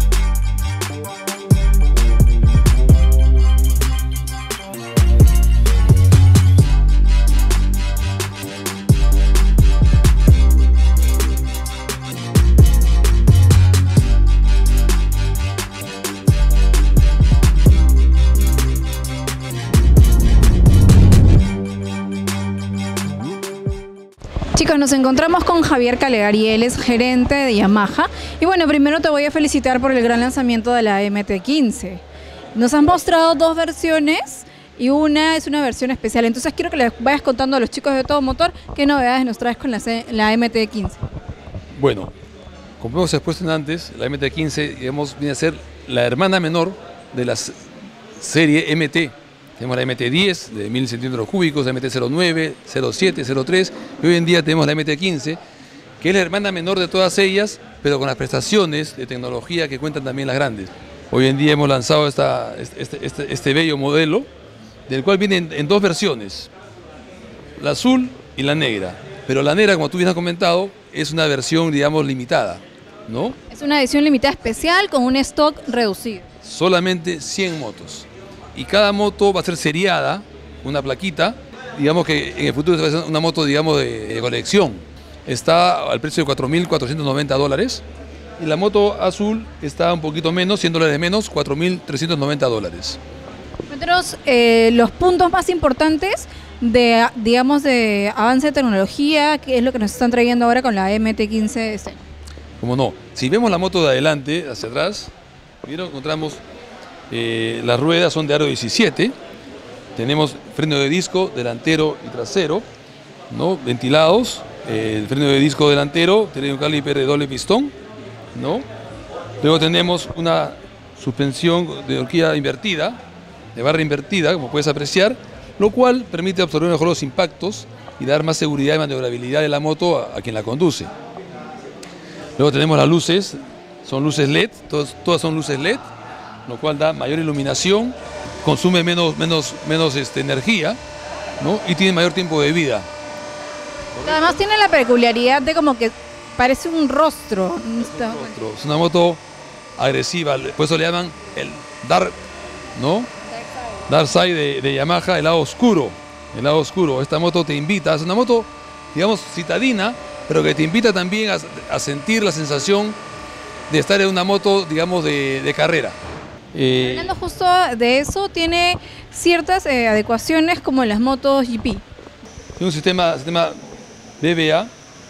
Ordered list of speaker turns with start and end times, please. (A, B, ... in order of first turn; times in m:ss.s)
0:24.5-0:32.0 A
0:32.5-0:41.0 A
0:41.7-0:42.1 B
0:42.8-0:47.6 B
0:48.2-0:55.4 B
0:56.0-1:04.3 B
1:04.9-1:06.5 B
1:07.6-1:13.4 B
1:13.5-1:16.3 A
1:16.4-1:27.8 B
1:28.4-1:33.0 B
1:33.7-1:42.0 A
1:42.6-1:45.1 B
1:45.6-1:46.4 B
1:47.1-1:49.1 B
1:50.0-1:52.6 B
1:53.3-1:57.7 B
1:58.3-1:58.6 B
1:59.4-2:03.0 B
2:03.5-2:10.9 B
2:12.4-2:15.8 B
2:16.4-2:20.8 B
2:21.4-2:22.9 B
2:24.0-2:28.3 A
2:27.8-2:29.2 B
2:29.8-2:32.2 B
2:32.8-2:33.1 B
2:33.9-2:43.0 B
2:43.7-2:46.0 B
2:46.5-2:47.1 B
2:46.8-2:51.8 A
2:52.6-2:53.6 B
2:54.2-2:54.7 B